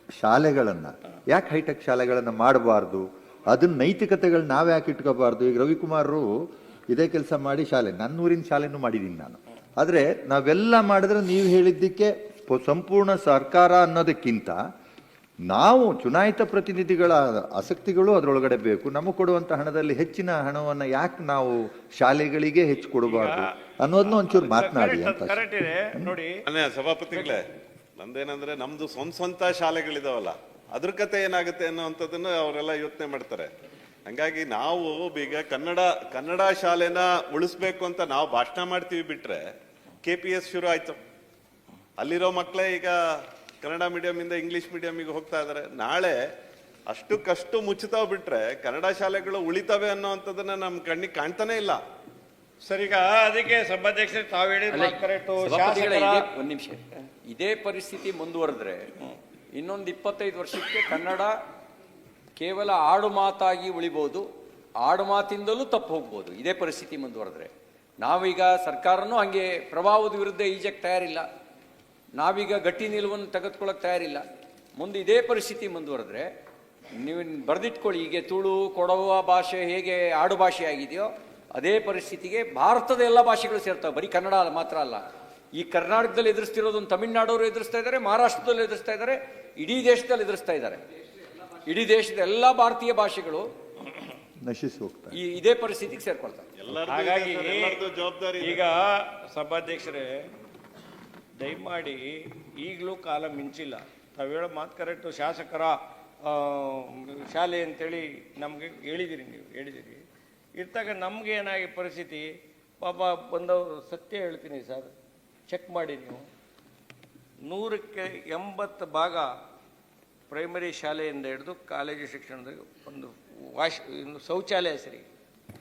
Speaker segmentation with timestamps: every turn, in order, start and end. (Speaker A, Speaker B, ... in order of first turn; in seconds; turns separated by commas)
Speaker A: 0.2-6.3, Speaker A: 6.9-14.6, Speaker A: 15.5-25.4, Speaker B: 23.1-26.4, Speaker C: 26.5-27.4, Speaker C: 28.0-33.5, Speaker C: 34.1-39.4, Speaker C: 40.0-41.0, Speaker C: 42.0-43.0, Speaker C: 43.6-46.2, Speaker C: 46.9-51.8, Speaker B: 52.6-56.2, Speaker D: 54.7-58.9, Speaker D: 59.5-61.3, Speaker D: 62.4-64.3, Speaker D: 64.8-71.2, Speaker D: 72.2-74.2, Speaker D: 74.8-76.3, Speaker D: 77.0-90.8, Speaker D: 91.7-93.5, Speaker A: 94.4-95.1, Speaker D: 95.1-96.5, Speaker C: 96.6-98.6, Speaker B: 96.9-97.8, Speaker B: 98.4-100.2, Speaker B: 101.4-110.0, Speaker B: 110.5-112.3, Speaker B: 112.8-114.9, Speaker B: 115.5-116.2, Speaker B: 117.5-119.3, Speaker B: 120.3-125.0